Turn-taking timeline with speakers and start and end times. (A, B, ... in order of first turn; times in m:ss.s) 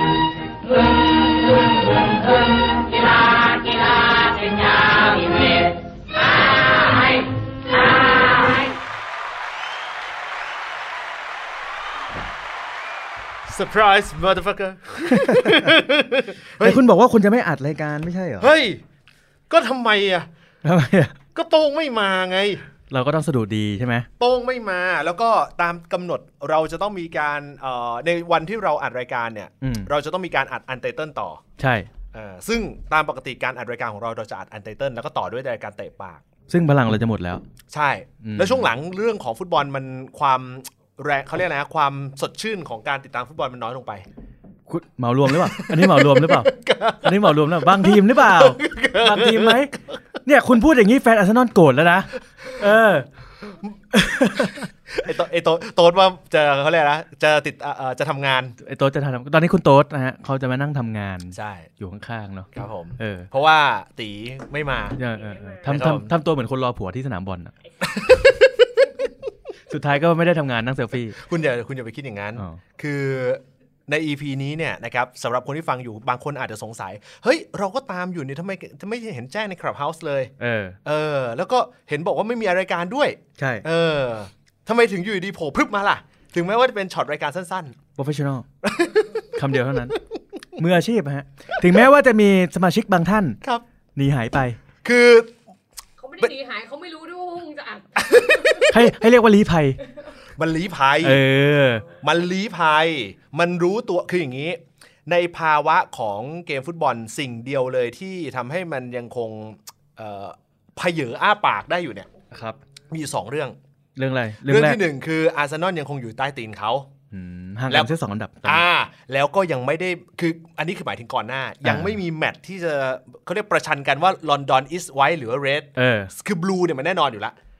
0:00.7-0:05.8 A
0:06.5-0:07.2 A
0:08.0-0:08.4 A
0:13.5-0:16.8 B
0:15.1-0:15.7 C
0:16.6-0:18.5 C
0:18.4-0:18.8 B
0:19.5-0:20.3 B
0:20.6-0:21.2 C
0:21.4-0:22.6 B
0:22.9-0:24.1 C
0:24.2-0:31.4 B
0:29.6-0:29.9 C
0:31.6-0:31.9 C
0:32.1-0:36.2 B
0:36.5-0:37.4 C
0:37.7-0:44.0 B
0:38.2-0:38.7 C
0:44.7-0:46.5 C
0:45.3-0:49.8 B
0:47.0-0:53.1 C
0:53.9-0:54.7 C
0:54.4-0:58.6 B
0:58.6-1:03.3 C
1:01.3-1:01.7 B
1:02.6-1:05.0 B
1:04.9-1:07.5 C
1:05.6-1:06.1 B
1:07.8-1:08.9 B
1:09.7-1:11.2 C
1:11.1-1:20.3 B
1:20.4-1:20.8 C
1:20.8-1:27.8 B
1:23.4-1:23.6 C
1:28.0-1:28.5 C
1:28.6-1:30.0 B
1:29.3-1:30.0 C
1:30.6-1:33.4 C
1:34.0-1:34.6 C
1:34.8-1:35.3 B
1:36.1-1:38.0 A
1:36.2-1:36.4 B
1:38.0-1:38.9 B
1:38.7-1:39.8 C
1:40.4-1:41.2 B
1:41.0-1:41.9 C
1:42.0-1:52.1 B
1:52.3-1:52.6 C
1:52.9-1:53.6 B
1:54.0-1:54.8 C
1:54.4-1:56.9 B
1:57.1-1:58.6 C
1:58.4-2:07.4 B
2:01.6-2:02.0 C
2:05.8-2:06.1 C